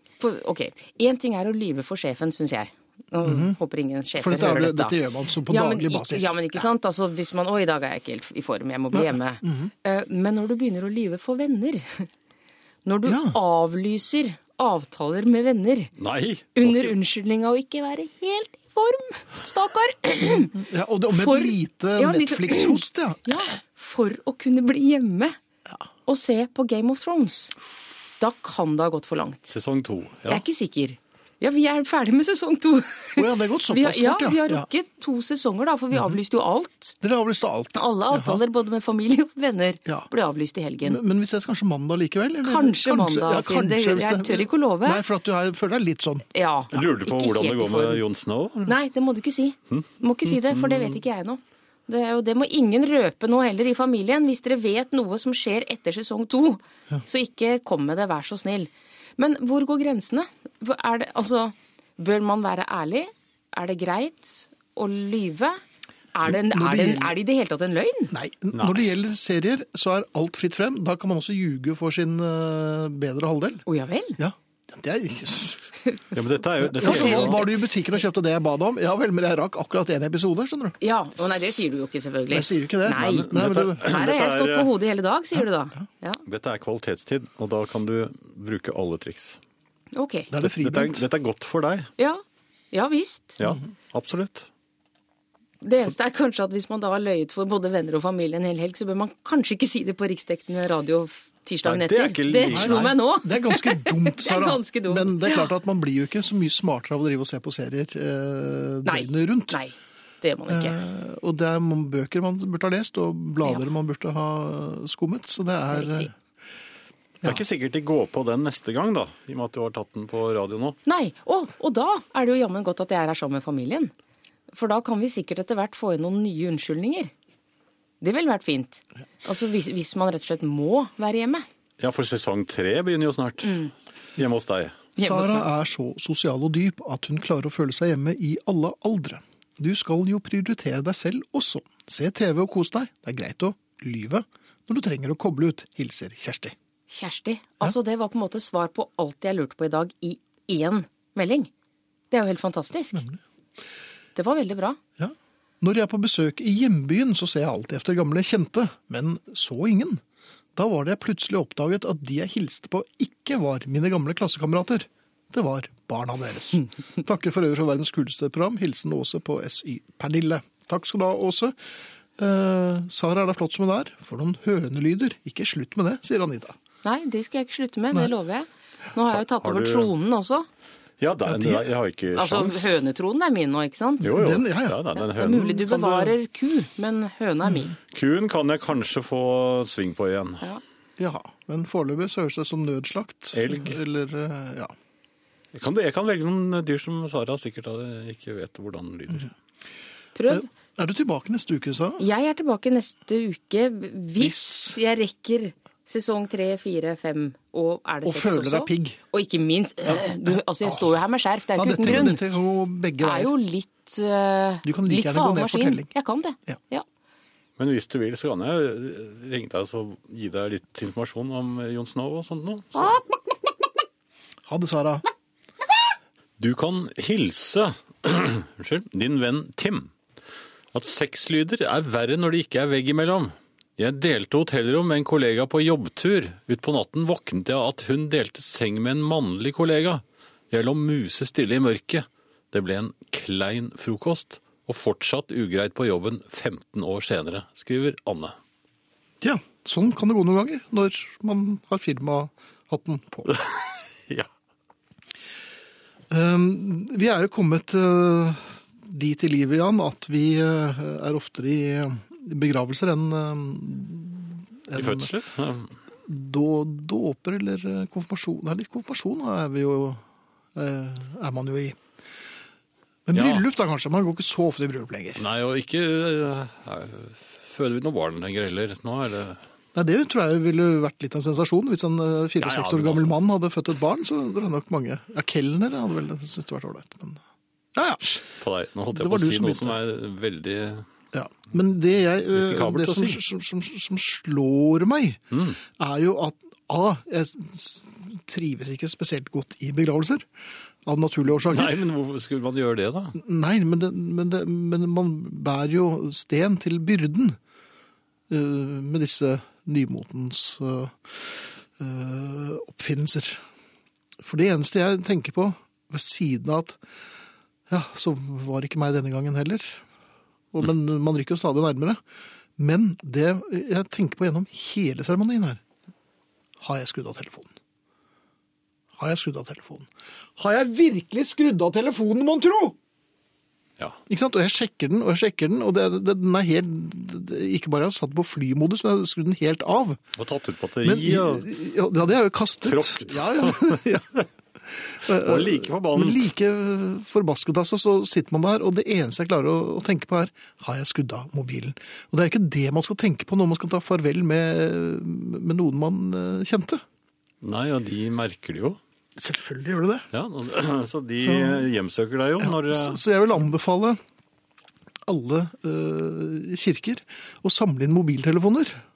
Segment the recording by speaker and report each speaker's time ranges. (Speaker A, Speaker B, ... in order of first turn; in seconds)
Speaker A: 0.2-5.0, 5.5-12.1, 12.8-15.9, 16.6-25.4, 26.1-27.6, 28.2-29.5, 30.3-37.0, 37.7-41.0, 42.4-45.0, 46.3-48.0, 48.6-65.6, 66.1-68.1, 73.7-74.2, 76.8-77.6, 80.8-86.2, 89.9-90.3, 92.0-93.4, 95.6-105.5, 108.9-110.8, 115.7-116.1, 120.9-123.9, 124.5-127.1, 128.0-131.4, 133.4-133.7, 134.9-135.5, 146.9-151.5, 152.1-153.0, 154.2-154.8, 176.8-180.5, 182.1-184.1, 184.9-187.8, 200.1-200.4, 202.0-212.2, 213.0-216.8
Speaker B: 3.2-3.6, 4.2-6.6, 8.9-9.7, 13.1-13.4, 20.5-23.2, 33.1-34.6, 37.0-38.4, 40.8-46.3, 66.2-67.1, 68.1-73.6, 74.2-75.8, 76.6-81.6, 82.3-83.9, 90.3-91.0, 102.5-109.6, 110.5-116.1, 135.0-146.5, 152.9-153.2, 155.0-160.0, 160.6-171.5, 172.2-176.5, 181.2-181.6, 184.0-184.8, 191.0-194.7, 200.3-202.0, 204.2-204.8, 208.0-209.0, 211.6-213.3, 214.6-215.9, 224.5-225.0, 249.2-253.4, 256.1-265.1, 266.1-270.0, 270.5-271.8, 273.1-275.2, 279.7-287.2, 287.7-288.2, 288.9-289.8, 291.1-300.2, 300.9-301.8, 303.1-307.4, 308.3-313.4, 314.2-316.8, 317.7-319.8, 320.5-322.0, 322.6-325.6, 326.6-327.5, 329.0-332.8, 334.1-340.0, 340.8-356.8, 359.2-360.1, 361.2-361.6, 362.4-364.0, 365.1-368.8
Speaker C: 16.0-16.9, 29.5-30.4, 46.7-48.7, 50.5-50.8, 68.5-68.9, 76.1-77.5, 82.9-84.7, 86.2-89.4, 90.4-91.9, 93.4-94.5, 101.6-103.0, 117.2-120.8, 131.8-133.6, 134.2-134.9, 179.1-179.9, 181.0-182.8, 184.0-186.1, 187.9-190.4, 193.3-193.8, 195.5-199.3, 217.6-223.0, 226.4-229.9, 230.7-248.4, 253.3-254.3, 264.8-265.7, 273.1-273.4, 275.2-279.4, 282.4-283.1, 288.1-290.9, 292.3-293.2, 295.3-295.6, 301.4-303.1, 340.1-341.5, 342.6-343.8, 345.1-346.3, 357.4-358.8, 360.1-363.0